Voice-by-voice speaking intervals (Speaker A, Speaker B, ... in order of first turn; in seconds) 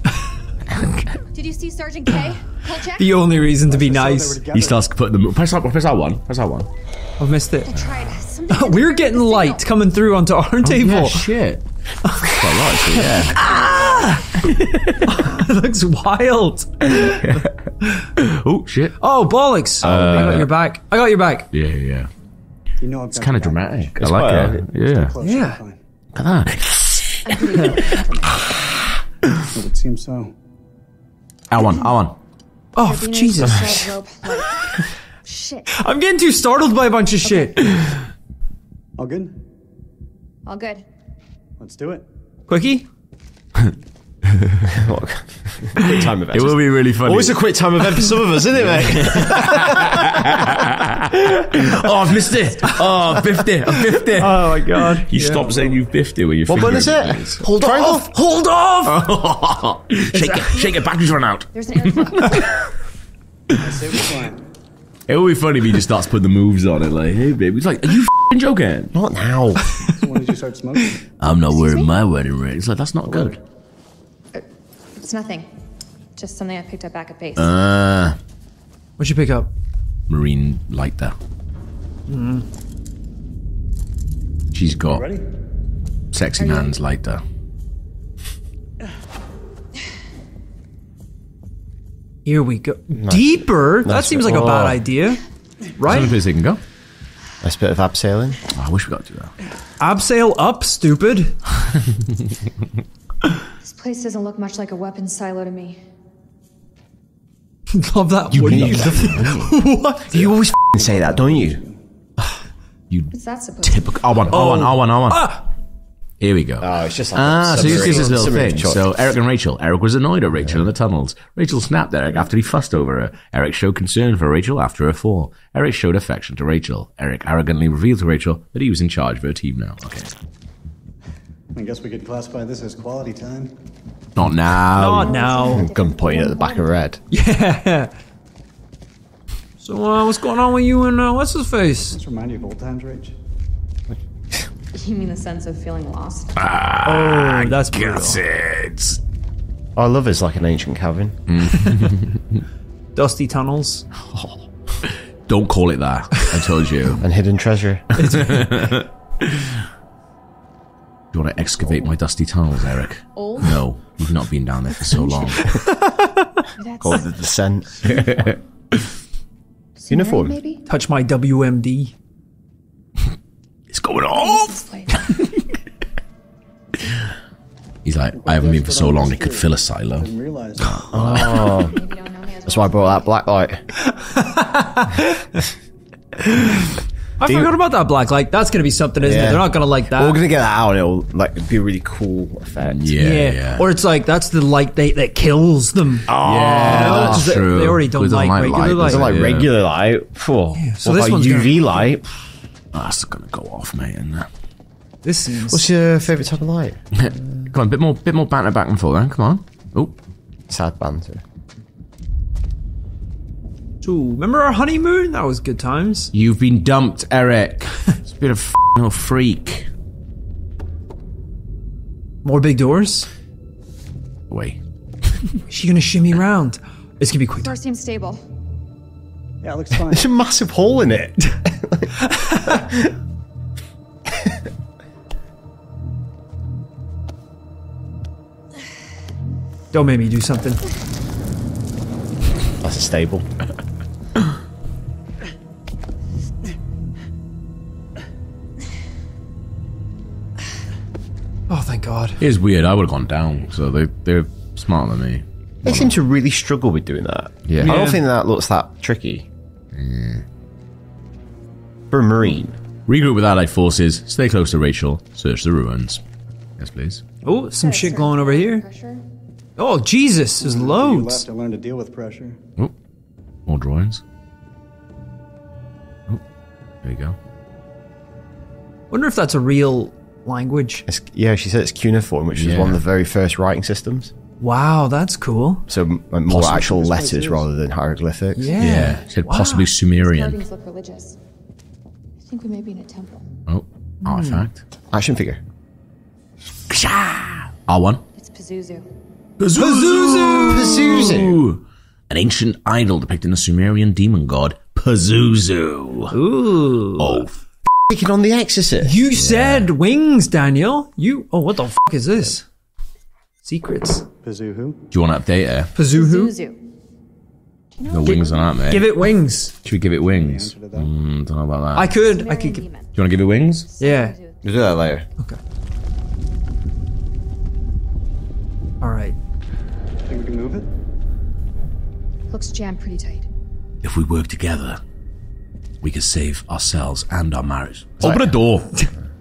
Speaker A: 0.8-1.0, 4.5-6.7, 7.8-8.2, 10.6-11.6, 12.2-15.1, 16.9-19.0, 19.8-20.5, 21.5-22.1, 23.1-25.1, 26.1-28.0, 31.5-32.2, 44.3-44.7, 45.8-57.4, 58.9-62.6, 65.1-69.0, 71.2-73.4, 77.4-78.2, 80.1-81.2, 84.5-85.1, 86.1-87.2, 94.3-94.8, 95.8-96.6, 98.5-99.3, 108.3-109.5, 112.9-115.3, 116.2-130.1, 134.2-135.1, 146.4-149.0, 151.3-152.4, 154.8-157.0, 157.9-159.6, 161.1-165.5, 167.8-168.4, 173.7-175.4, 177.8-181.5, 192.7-193.7, 196.1-199.5, 202.7-204.3, 206.9-209.9, 216.1-219.7, 224.3-224.6, 252.2-255.9, 257.5-257.8, 259.7-260.2, 262.9-266.0, 266.6-267.0, 273.5-274.0, 276.8-277.2, 282.4-282.8, 288.6-290.4, 293.5-294.6, 296.7-298.0, 299.4-306.2, 307.0-307.4, 309.1-309.7, 314.9-315.7, 317.9-319.1, 319.6-321.9, 322.9-323.7, 333.8-334.8, 335.8-338.7
Speaker B: 1.3-3.2, 7.7-9.7, 13.4-14.1, 27.2-28.4, 32.8-35.7, 37.2-37.8, 40.5-40.8, 61.5-62.5, 71.5-71.9, 74.3-75.5, 76.2-77.6, 86.4-86.8, 103.6-105.8, 113.1-114.0, 134.9-136.7, 144.7-146.3, 163.2-163.7, 164.8-165.6, 166.6-167.1, 169.8-170.6, 174.1-175.1, 181.3-183.1, 227.4-228.2, 267.6-269.0, 290.0-291.2, 292.2-293.2, 298.2-298.9, 315.9-316.6, 317.8-318.7, 322.0-322.9, 323.7-324.4, 332.3-333.3
Speaker C: 3.0-4.4, 7.2-7.7, 8.5-11.3, 12.1-12.5, 15.1-18.1, 19.0-21.5, 25.2-25.6, 32.8-33.9, 35.8-37.6, 42.5-42.9, 54.1-55.6, 57.5-59.0, 60.1-60.7, 79.0-79.5, 82.1-82.5, 92.2-95.2, 95.8-96.2, 99.8-101.4, 107.7-110.3, 114.3-115.4, 134.8-135.7, 137.1-137.9, 139.6-142.0, 146.8-148.2, 153.0-153.9, 158.0-158.5, 165.6-166.3, 170.7-171.9, 183.9-185.3, 187.2-190.2, 192.9-199.1, 200.5-201.8, 205.0-206.2, 213.8-216.1, 222.2-223.1, 225.5-227.5, 232.0-232.6, 239.7-240.6, 251.5-252.2, 257.6-258.0, 267.2-268.6, 269.6-271.2, 278.9-280.9, 284.4-285.7, 288.4-289.7, 294.0-294.5, 299.6-301.2, 306.1-307.3, 308.8-312.4, 313.4-314.1, 315.8-316.3, 318.0-319.5, 321.8-322.7, 323.8-324.2, 328.8-329.2
Speaker D: 3.7-4.9, 22.8-25.8, 29.5-30.3, 39.0-39.4, 41.6-42.0, 63.6-64.5, 69.9-71.0, 73.0-73.4, 84.9-85.2, 110.7-111.8, 131.5-133.5, 141.9-143.1, 178.2-180.9, 229.4-230.1, 270.4-272.4, 286.3-287.5, 314.2-314.8, 320.1-320.9, 330.1-330.7
Speaker E: 12.5-13.3, 19.8-20.5, 24.0-24.6, 44.7-50.0, 56.5-58.1, 68.9-69.6, 93.0-94.6, 97.4-98.4, 108.4-109.5, 110.1-111.6, 116.6-118.8, 135.5-137.0, 143.9-144.5, 149.8-151.2, 157.0-157.9, 166.8-168.0, 169.9-170.4, 180.9-181.8, 182.5-183.6, 187.2-187.5, 189.0-192.9, 196.1-197.3, 198.8-202.1, 205.4-206.8, 210.5-211.2, 229.9-231.9, 232.5-232.8, 242.6-243.3, 255.6-259.3, 261.9-262.6, 280.9-284.1, 285.7-288.5, 294.9-295.4, 300.5-301.4, 307.9-309.0, 324.4-325.1, 338.0-338.4